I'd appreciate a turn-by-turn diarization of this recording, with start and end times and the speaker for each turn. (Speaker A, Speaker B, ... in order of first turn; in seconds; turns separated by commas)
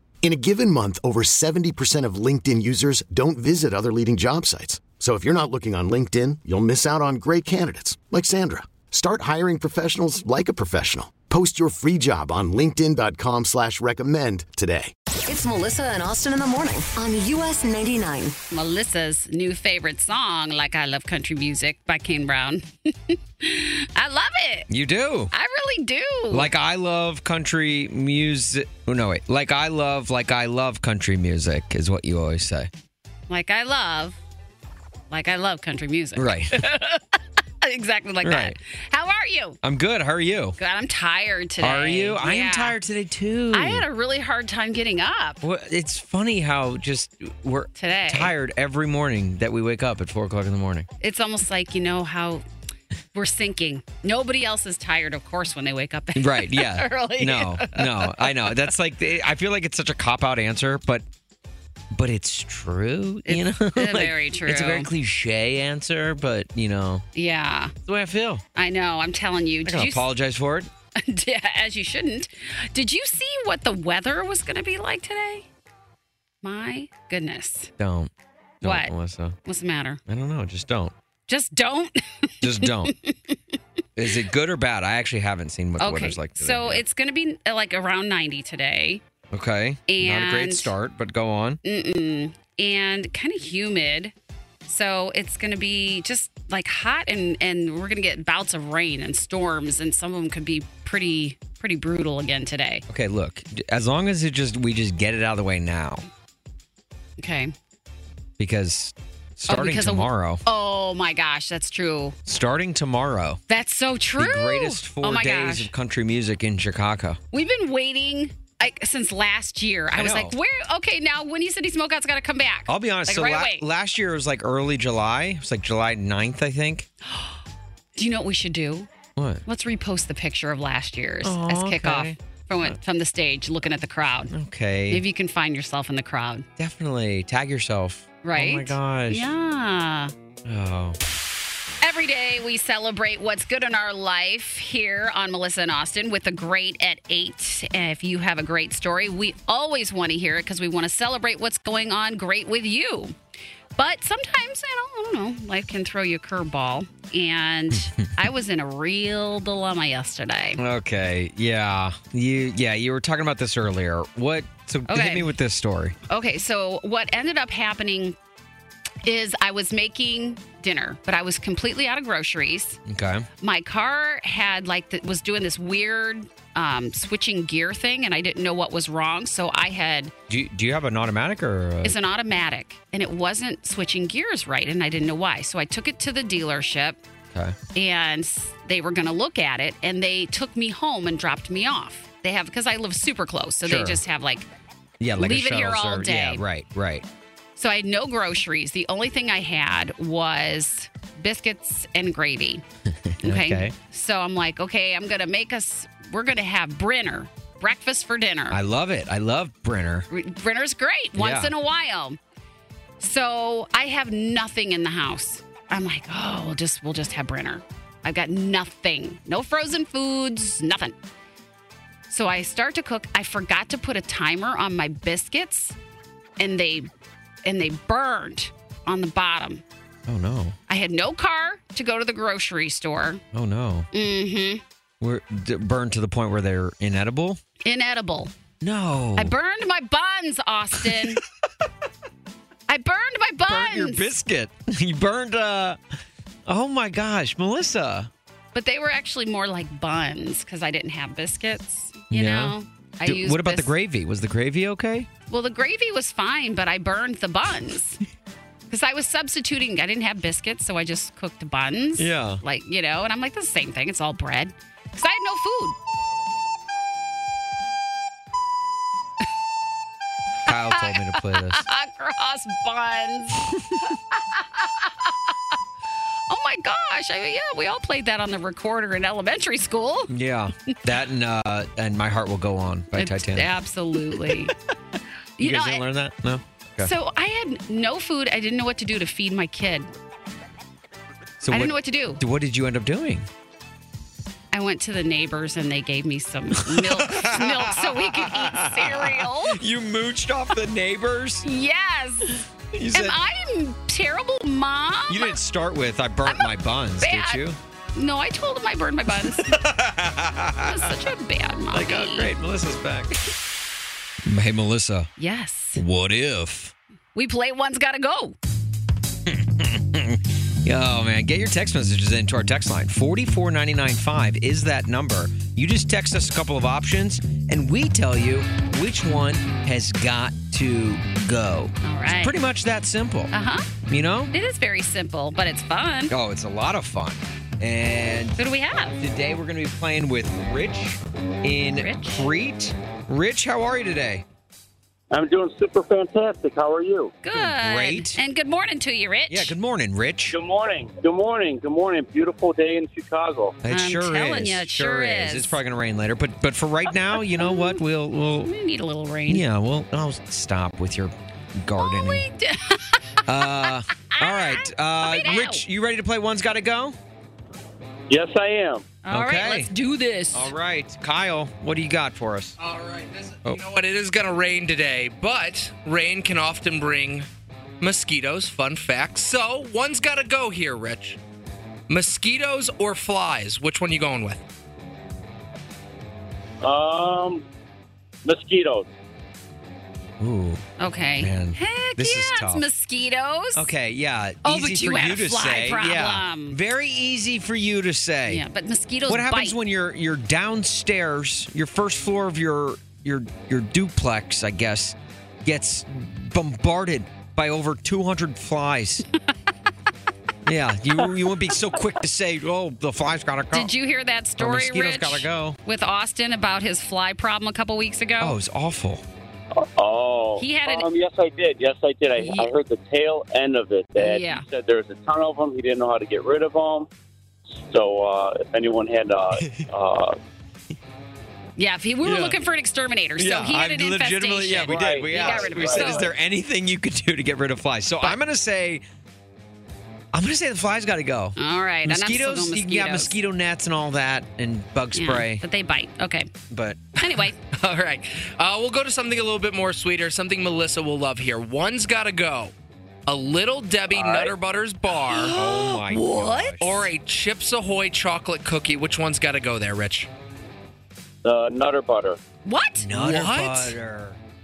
Speaker A: 0.2-14.9, Speaker B: 15.2-18.3, Speaker C: 18.5-24.7, Speaker D: 24.7-25.3, Speaker C: 25.3-26.5, Speaker D: 26.3-32.7, Speaker C: 33.3-34.2, Speaker C: 35.1-37.0, Speaker D: 36.1-36.6, Speaker C: 37.6-39.6, Speaker D: 38.2-38.5, Speaker D: 39.6-40.6, Speaker C: 40.6-42.7, Speaker D: 41.6-43.9, Speaker C: 43.5-45.4, Speaker D: 45.4-50.9, Speaker C: 47.8-48.3, Speaker C: 51.0-52.4, Speaker C: 53.1-58.7, Speaker D: 56.1-61.0, Speaker D: 61.9-67.0, Speaker C: 63.3-64.9, Speaker C: 67.1-67.7, Speaker D: 67.8-68.4, Speaker C: 68.5-70.1, Speaker D: 69.6-70.7, Speaker C: 71.0-75.5, Speaker C: 76.4-77.7, Speaker D: 77.8-78.1, Speaker D: 78.6-79.3, Speaker C: 78.6-78.9, Speaker C: 79.4-80.0, Speaker D: 80.1-80.9, Speaker C: 81.3-83.4, Speaker D: 82.4-82.9, Speaker D: 84.0-86.8, Speaker C: 85.8-89.0, Speaker D: 89.3-91.6, Speaker C: 89.9-90.7, Speaker C: 91.6-94.1, Speaker C: 94.7-102.8, Speaker D: 102.9-106.0, Speaker C: 107.2-107.5, Speaker D: 108.4-110.4, Speaker C: 109.5-112.2, Speaker D: 112.2-113.4, Speaker C: 113.5-115.7, Speaker D: 114.2-117.2, Speaker C: 117.3-123.6, Speaker D: 119.9-120.3, Speaker D: 122.7-126.9, Speaker C: 127.0-127.4, Speaker C: 128.0-128.9, Speaker D: 129.2-129.4, Speaker C: 129.4-134.3, Speaker D: 131.2-132.8, Speaker D: 134.3-135.0, Speaker C: 134.9-136.4, Speaker D: 136.6-139.3, Speaker C: 138.2-140.1, Speaker D: 140.4-141.0, Speaker C: 141.8-153.1, Speaker C: 153.8-160.6, Speaker D: 157.7-158.1, Speaker D: 160.6-165.9, Speaker C: 164.9-165.3, Speaker C: 166.1-168.2, Speaker C: 169.0-172.8, Speaker D: 172.8-173.2, Speaker C: 173.4-180.1, Speaker D: 180.3-182.0, Speaker C: 181.8-187.0, Speaker C: 187.7-194.5, Speaker D: 193.6-194.0, Speaker D: 195.0-197.1, Speaker C: 195.2-196.4, Speaker C: 197.6-202.6, Speaker D: 202.9-203.7, Speaker C: 203.2-208.6, Speaker D: 208.5-210.1, Speaker C: 210.1-212.2, Speaker D: 211.2-211.5, Speaker C: 213.0-221.0, Speaker C: 222.1-225.8, Speaker C: 226.4-226.9, Speaker C: 227.4-229.6, Speaker D: 230.1-230.6, Speaker C: 230.7-233.2, Speaker D: 233.3-233.9, Speaker C: 233.9-234.6, Speaker D: 235.0-237.4, Speaker C: 237.6-238.3, Speaker D: 238.6-239.3, Speaker C: 239.2-241.2, Speaker D: 240.8-241.1, Speaker C: 242.7-244.1, Speaker D: 243.5-245.8, Speaker D: 246.4-248.1, Speaker C: 248.5-253.7, Speaker D: 252.1-255.1, Speaker C: 255.3-258.0, Speaker C: 258.7-265.8, Speaker D: 262.0-262.4, Speaker D: 270.4-271.6, Speaker C: 270.5-275.1, Speaker D: 273.4-273.8, Speaker C: 276.3-280.1, Speaker D: 280.1-283.5, Speaker C: 282.9-284.5, Speaker C: 285.4-285.8, Speaker D: 285.4-286.9, Speaker C: 286.8-289.9, Speaker D: 291.4-293.3, Speaker C: 291.5-292.2, Speaker C: 294.5-299.6, Speaker D: 296.5-301.4, Speaker C: 301.4-302.3, Speaker D: 302.7-303.2, Speaker C: 302.9-305.4, Speaker D: 305.1-307.6, Speaker C: 306.3-307.4, Speaker C: 307.9-309.6, Speaker D: 309.2-310.9, Speaker C: 310.7-312.3, Speaker D: 311.7-313.1, Speaker D: 314.2-315.1, Speaker C: 315.2-315.8, Speaker D: 315.8-316.7, Speaker C: 317.1-318.4, Speaker D: 319.3-333.3, Speaker C: 331.8-332.4, Speaker C: 333.3-333.7, Speaker D: 333.8-334.3, Speaker C: 334.3-336.1, Speaker D: 336.1-338.4, Speaker C: 338.4-339.0, Speaker D: 339.0-344.2, Speaker C: 341.7-342.3, Speaker E: 345.1-347.1, Speaker C: 347.2-349.5, Speaker D: 347.3-348.2, Speaker D: 349.3-350.4, Speaker E: 350.3-353.6, Speaker D: 353.6-358.5, Speaker C: 353.7-355.6, Speaker C: 357.3-357.8, Speaker C: 358.4-359.4, Speaker D: 359.3-362.2, Speaker C: 361.8-365.6, Speaker D: 363.2-366.9, Speaker E: 368.1-368.9, Speaker C: 369.0-370.5, Speaker D: 369.1-369.7, Speaker D: 370.3-372.6, Speaker F: 372.6-377.3, Speaker F: 377.8-381.2, Speaker F: 381.9-384.4, Speaker E: 386.6-387.4, Speaker E: 388.2-388.9, Speaker D: 390.2-390.6, Speaker C: 390.8-393.7, Speaker D: 391.2-392.6, Speaker D: 393.5-398.4, Speaker C: 394.4-396.6, Speaker C: 398.3-399.6, Speaker D: 399.1-409.0, Speaker D: 410.4-413.7, Speaker C: 413.5-418.3, Speaker D: 414.4-415.6, Speaker D: 418.2-419.0, Speaker E: 419.5-426.9, Speaker C: 420.4-420.9, Speaker C: 422.2-422.5, Speaker C: 424.0-424.4, Speaker E: 427.6-430.1, Speaker C: 431.6-436.1, Speaker D: 432.0-432.4, Speaker D: 433.2-438.8, Speaker E: 434.7-436.1, Speaker D: 440.1-445.4, Speaker C: 441.4-443.2, Speaker C: 444.9-446.3, Speaker D: 446.5-447.0, Speaker C: 447.0-447.4, Speaker F: 447.5-452.5, Speaker F: 453.1-455.3, Speaker E: 453.9-454.3, Speaker C: 455.1-456.6, Speaker D: 455.1-456.9, Speaker F: 456.6-460.1, Speaker E: 461.2-462.2, Speaker C: 462.4-463.1, Speaker D: 462.8-464.2, Speaker F: 462.9-463.7